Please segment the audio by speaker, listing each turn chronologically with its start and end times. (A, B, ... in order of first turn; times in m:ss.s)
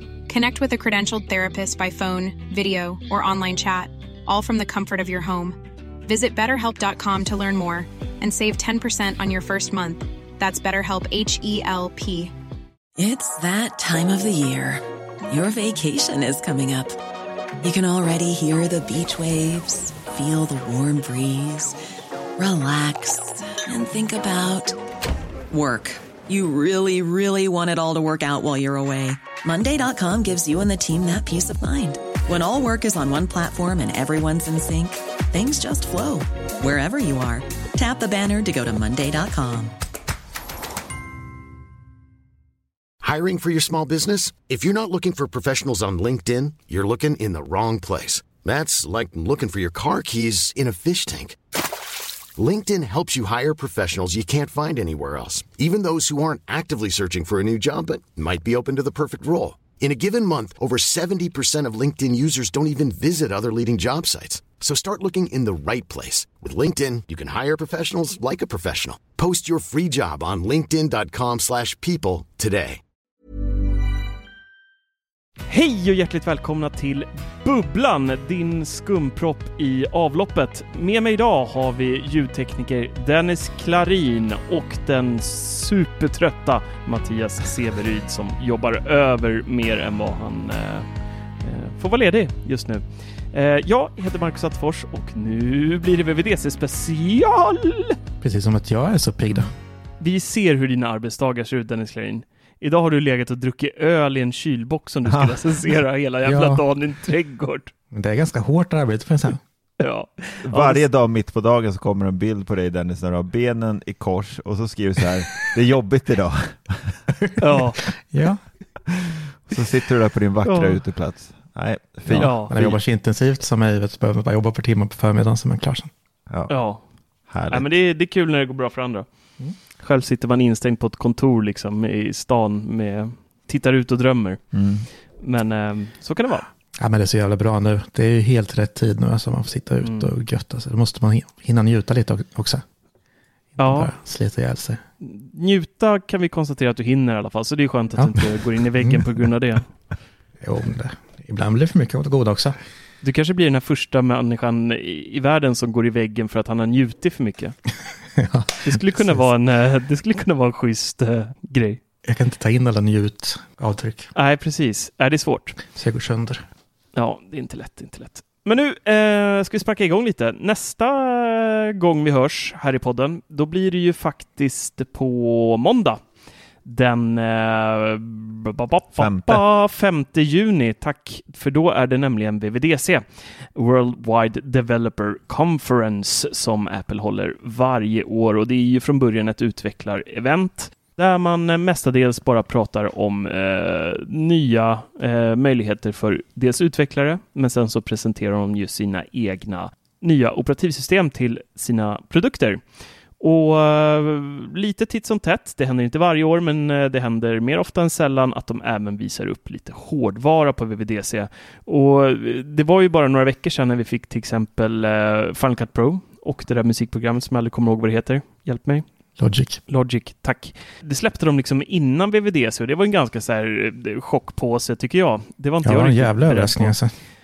0:00.2-0:12.3 A
0:13.0-0:17.0 B
0:17.6-0:21.8 B
0:22.4-0:24.8 B
0:25.5-0:39.7 B
0:43.0-0:51.4 C
0:52.4-1:12.8 C
1:15.5-1:30.9 D
1:31.4-1:38.0 D
1:38.2-1:39.5 E
1:40.0-1:47.7 D
1:45.1-1:45.4 F
1:46.2-1:46.6 E
1:47.9-1:49.4 E
1:49.8-1:50.8 D
1:50.4-1:57.0 F
1:57.1-1:58.4 E
1:57.4-1:57.8 D
1:59.5-2:02.8 F
2:00.4-2:00.8 D
2:02.1-2:05.9 E
2:02.1-2:02.5 D
2:06.5-2:06.8 D
2:07.3-2:07.7 F
2:07.5-2:09.0 D
2:09.7-2:14.4 D
2:14.5-2:14.9 F
2:15.2-2:16.4 D
2:16.8-2:22.6 E
2:19.8-2:20.1 D
2:23.6-2:24.8 E
2:23.6-2:23.9 D
2:25.0-2:29.6 D
2:28.0-2:29.2 E
2:30.4-2:32.6 E
2:33.0-2:37.6 D
2:38.2-2:39.2 E
2:38.6-2:41.8 D
2:42.0-2:44.1 E
2:44.1-2:45.6 D
2:45.7-2:46.4 E
2:46.9-2:56.0 D
2:56.6-3:22.6 D
2:59.0-2:59.4 F
3:23.2-3:38.8 D
3:39.2-3:39.6 E
3:39.7-3:46.7 D
3:45.6-3:46.9 E